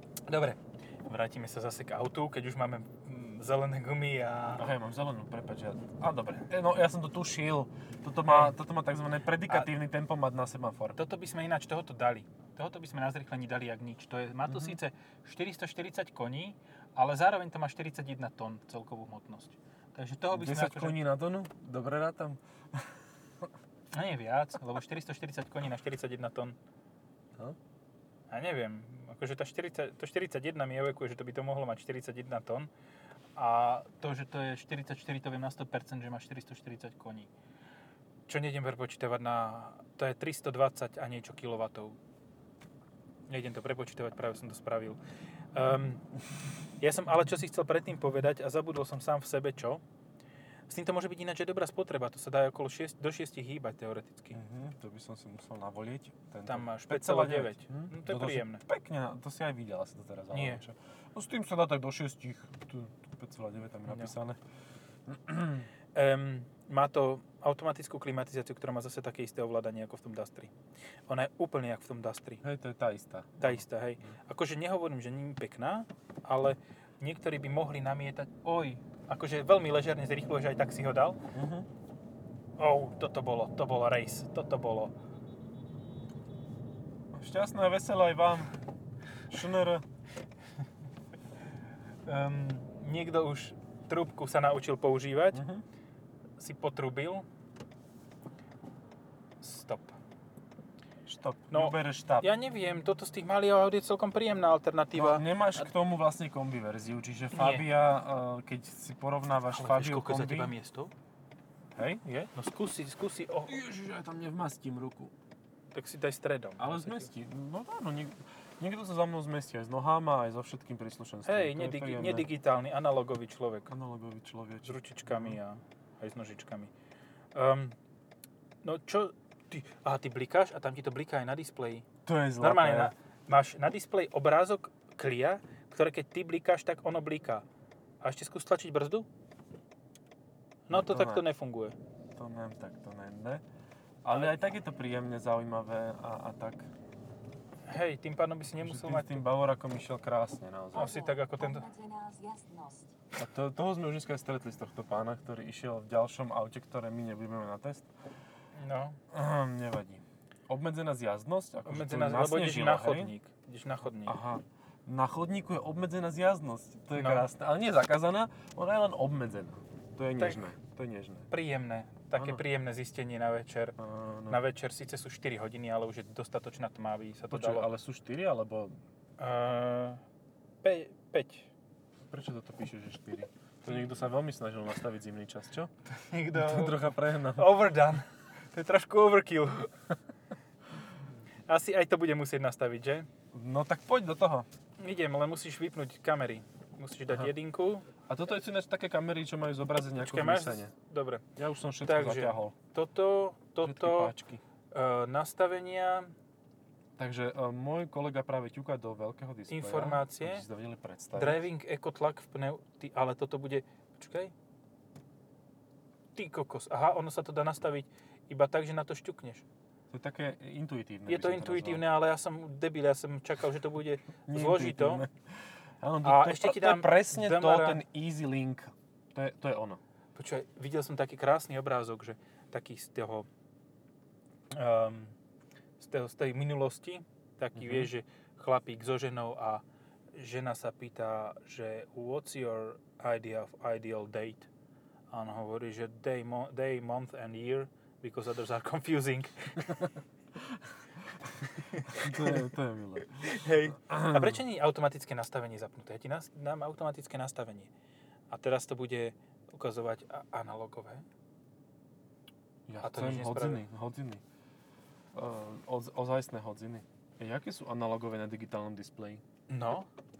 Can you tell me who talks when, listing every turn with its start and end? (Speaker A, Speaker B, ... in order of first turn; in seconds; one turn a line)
Speaker A: 0.3-4.7
Speaker B: 4.6-11.0
Speaker A: 8.3-8.5
Speaker A: 10.9-21.0
Speaker B: 14.4-14.8
Speaker B: 20.3-22.9
Speaker A: 23.9-26.6
Speaker A: 28.3-32.7
Speaker A: 33.4-37.3
Speaker A: 38.3-42.0
Speaker A: 43.3-45.0
Speaker A: 45.5-46.0
Speaker A: 46.8-49.8
Speaker A: 50.7-54.4
Speaker B: 54.3-64.4
Speaker A: 56.5-58.6
Speaker A: 60.3-60.6
Speaker A: 63.9-64.1
Speaker B: 65.1-65.7
Speaker A: 65.9-70.5
Speaker A: 71.1-72.4
Speaker B: 72.4-74.1
Speaker A: 73.4-81.2
Speaker B: 81.3-81.7
Speaker A: 82.6-84.9
Speaker B: 87.1-88.5
Speaker B: 89.3-89.8
Speaker A: 92.1-95.4
Speaker B: 95.3-95.6
Speaker A: 96.4-97.3
Speaker A: 99.4-100.0
Speaker B: 101.1-102.3
Speaker A: 101.5-105.6
Speaker B: 104.9-110.5
Speaker A: 107.3-107.7
Speaker A: 109.5-110.9
Speaker B: 111.7-112.3
Speaker A: 112.3-113.6
Speaker B: 113.5-115.1
Speaker A: 115.7-117.1
Speaker B: 116.6-122.3
Speaker A: 121.2-123.7
Speaker B: 123.7-125.4
Speaker A: 124.7-126.7
Speaker A: 127.3-127.8
Speaker A: 128.6-131.9
Speaker B: 132.1-132.9
Speaker A: 132.4-137.4
Speaker A: 138.0-139.1
Speaker A: 140.7-141.8
Speaker B: 140.7-141.2
Speaker B: 142.1-143.4
Speaker B: 144.0-146.7
Speaker A: 147.7-149.2
Speaker B: 148.6-150.9
Speaker A: 150.7-151.7
Speaker C: 150.7-152.9
Speaker B: 153.2-157.9
Speaker A: 158.6-159.0
Speaker B: 159.1-163.1
Speaker A: 161.7-164.2
Speaker B: 164.1-171.3
Speaker A: 166.9-167.3
Speaker A: 170.2-170.5
Speaker A: 171.3-173.8
Speaker B: 172.1-172.4
Speaker B: 173.8-174.4
Speaker A: 174.3-177.7
Speaker B: 177.3-178.8
Speaker A: 179.2-180.0
Speaker A: 180.6-181.5
Speaker B: 182.1-185.7
Speaker A: 185.9-189.7
Speaker B: 186.3-187.6
Speaker A: 191.5-193.1
Speaker B: 193.3-194.5
Speaker A: 194.8-197.8
Speaker B: 198.1-200.7
Speaker A: 200.0-201.2
Speaker B: 201.4-202.6
Speaker A: 201.8-204.1
Speaker B: 203.6-204.4
Speaker A: 204.7-206.1
Speaker B: 207.0-211.4
Speaker A: 209.5-210.4
Speaker A: 211.1-214.3
Speaker A: 216.1-219.4
Speaker B: 219.9-221.9
Speaker A: 221.1-225.1
Speaker B: 224.3-225.2
Speaker B: 225.8-229.8
Speaker A: 226.0-227.8
Speaker A: 230.1-233.3
Speaker A: 234.5-235.2
Speaker A: 235.8-239.6
Speaker B: 237.6-237.9
Speaker A: 240.2-244.5
Speaker A: 245.1-249.9
Speaker B: 251.2-254.4
Speaker A: 251.7-252.4
Speaker A: 253.2-257.7
Speaker A: 258.3-261.1
Speaker B: 262.7-264.2
Speaker A: 262.8-263.6
Speaker B: 265.1-269.2
Speaker A: 269.5-269.9